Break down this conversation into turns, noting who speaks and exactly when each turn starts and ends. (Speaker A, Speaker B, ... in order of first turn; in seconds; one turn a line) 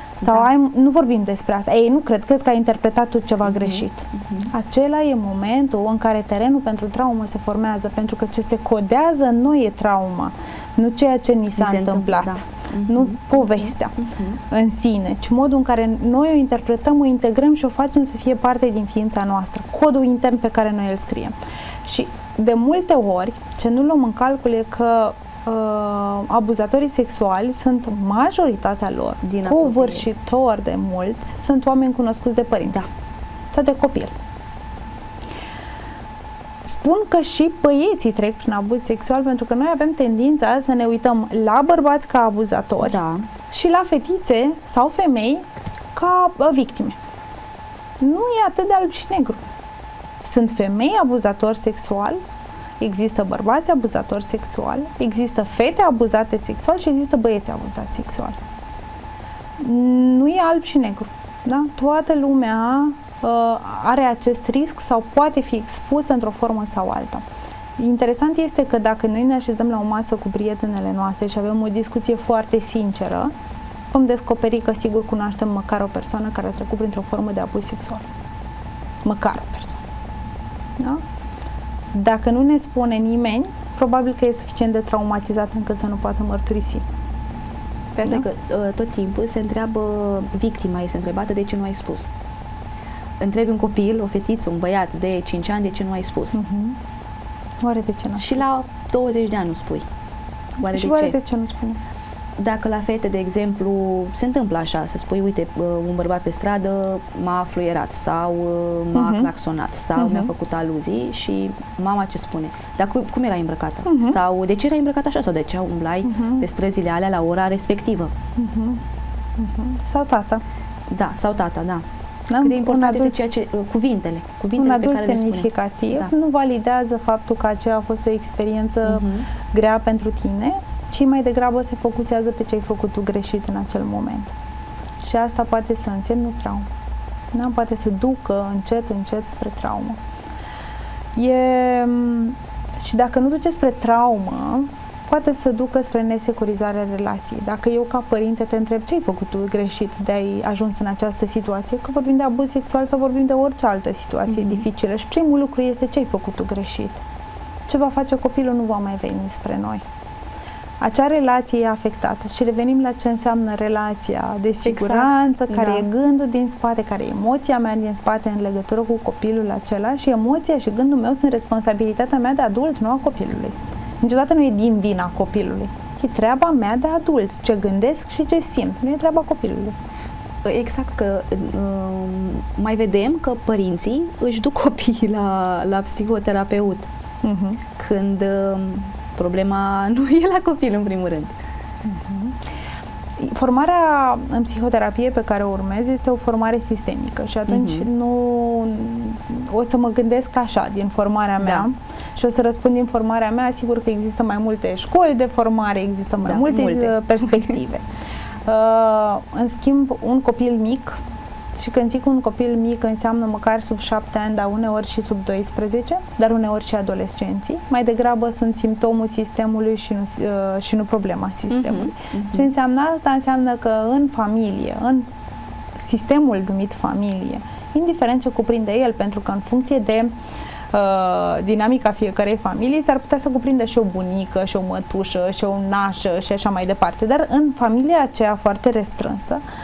Speaker A: 0.2-32.9
Speaker B: 3.5-4.5
Speaker B: 11.6-14.4
Speaker B: 29.2-30.1
Speaker A: 33.5-34.1
Speaker A: 36.7-43.0
Speaker B: 42.8-43.3
Speaker A: 43.5-45.4
Speaker A: 46.0-47.0
Speaker A: 48.0-49.4
Speaker A: 50.2-52.2
Speaker A: 52.8-58.4
Speaker A: 59.6-67.2
Speaker A: 67.8-73.3
Speaker A: 73.9-78.1
Speaker A: 79.0-79.8
Speaker A: 81.9-86.8
Speaker B: 88.0-92.1
Speaker B: 93.2-96.4
Speaker A: 96.3-96.8
Speaker A: 97.6-98.5
Speaker B: 98.2-99.9
Speaker B: 100.6-101.2
Speaker A: 100.6-101.8
Speaker B: 102.4-118.1
Speaker A: 108.9-109.3
Speaker A: 110.0-110.3
Speaker A: 113.8-114.2
Speaker A: 116.0-116.5
Speaker A: 118.4-118.8
Speaker A: 119.4-120.4
Speaker B: 120.9-121.8
Speaker A: 122.3-123.2
Speaker B: 122.4-126.1
Speaker A: 124.6-134.3
Speaker B: 128.9-129.3
Speaker A: 135.0-136.7
Speaker A: 137.3-140.0
Speaker A: 141.2-157.0
Speaker B: 154.3-154.6
Speaker A: 157.7-159.8
Speaker A: 160.8-179.8
Speaker B: 164.6-165.9
Speaker B: 180.4-186.9
Speaker A: 187.2-187.6
Speaker B: 187.8-191.3
Speaker A: 191.8-192.4
Speaker A: 193.2-207.8
Speaker B: 197.5-197.9
Speaker B: 206.2-207.0
Speaker A: 208.5-211.0
Speaker A: 211.6-225.1
Speaker B: 221.5-222.5
Speaker A: 225.8-230.1
Speaker A: 230.7-239.4